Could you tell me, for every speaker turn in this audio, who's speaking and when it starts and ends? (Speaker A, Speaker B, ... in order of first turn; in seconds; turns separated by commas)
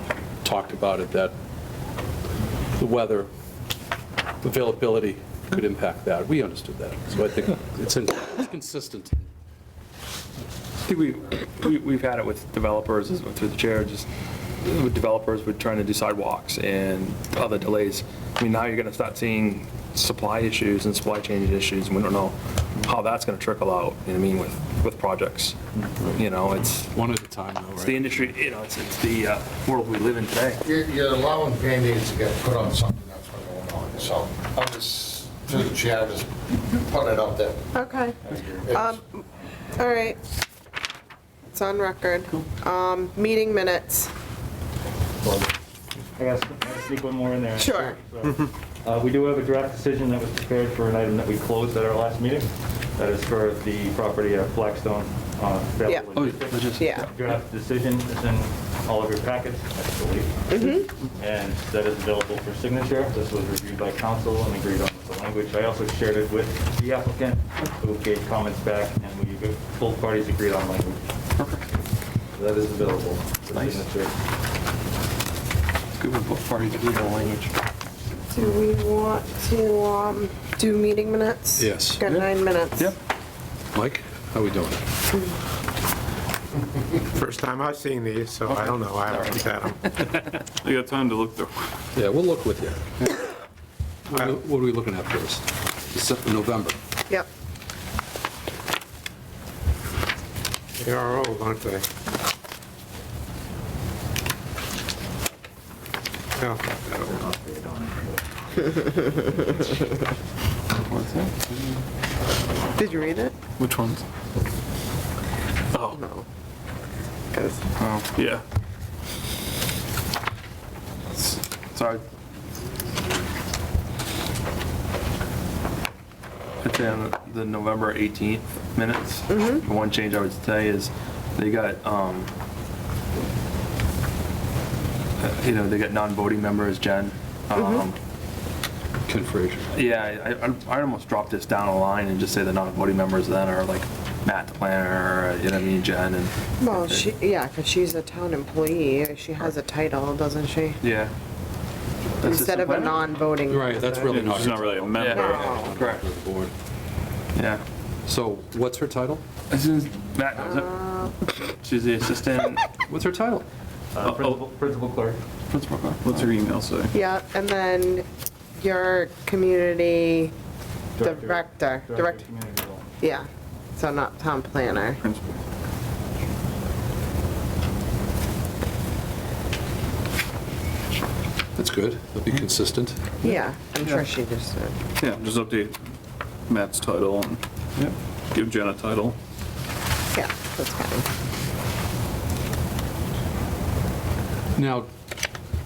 Speaker A: 0.4-1.3, Speaker A: 2.8-3.3, Speaker A: 4.4-9.2, Speaker B: 10.8-14.1, Speaker B: 14.6-25.6, Speaker B: 26.1-26.9, Speaker A: 26.9-28.1, Speaker B: 27.8-30.6, Speaker C: 30.6-37.7, Speaker D: 37.7-39.2, Speaker E: 38.2-38.6, Speaker D: 39.7-40.2, Speaker D: 41.5-44.1, Speaker E: 45.2-45.5, Speaker E: 46.1-71.0, Speaker D: 47.6-48.0, Speaker B: 56.1-57.1, Speaker D: 56.8-57.1, Speaker D: 60.5-60.9, Speaker B: 71.3-71.6, Speaker E: 72.3-74.1, Speaker B: 73.5-73.8, Speaker B: 76.0-77.5, Speaker D: 78.3-82.9, Speaker A: 81.6-82.0, Speaker A: 83.7-84.8, Speaker F: 87.1-89.9, Speaker G: 90.6-91.7, Speaker A: 91.9-92.9, Speaker A: 94.1-96.8, Speaker F: 100.8-101.8, Speaker F: 106.4-106.7, Speaker B: 106.9-107.2, Speaker G: 107.2-107.9, Speaker D: 108.6-109.7, Speaker B: 110.7-111.8, Speaker D: 112.8-113.3, Speaker G: 113.6-114.0, Speaker D: 115.9-116.2, Speaker D: 117.3-117.7, Speaker B: 117.8-118.2, Speaker G: 118.2-118.4, Speaker B: 121.1-122.0, Speaker B: 126.6-132.3, Speaker D: 129.3-129.7, Speaker B: 135.2-138.0, Speaker D: 137.5-137.8, Speaker A: 139.1-139.7, Speaker B: 139.7-147.1, Speaker D: 146.6-150.8, Speaker B: 150.8-151.1, Speaker B: 152.2-153.1, Speaker D: 152.2-154.2, Speaker A: 153.5-156.5, Speaker G: 154.1-155.5, Speaker B: 154.9-156.0, Speaker D: 155.1-155.7, Speaker B: 157.3-157.6, Speaker A: 158.1-159.2, Speaker B: 159.5-160.7, Speaker D: 160.4-161.1, Speaker B: 161.5-162.7, Speaker A: 162.9-163.4, Speaker E: 163.9-165.2, Speaker G: 164.0-164.3, Speaker B: 165.5-166.2, Speaker G: 166.0-166.9, Speaker D: 166.9-168.0, Speaker D: 168.6-170.3, Speaker E: 171.0-172.8, Speaker D: 171.0-172.2, Speaker D: 173.0-175.0, Speaker G: 175.0-175.4, Speaker A: 181.6-183.0, Speaker D: 183.2-184.8, Speaker G: 185.0-185.8, Speaker G: 186.5-187.4, Speaker G: 188.3-189.2, Speaker D: 190.1-191.1, Speaker A: 194.6-194.9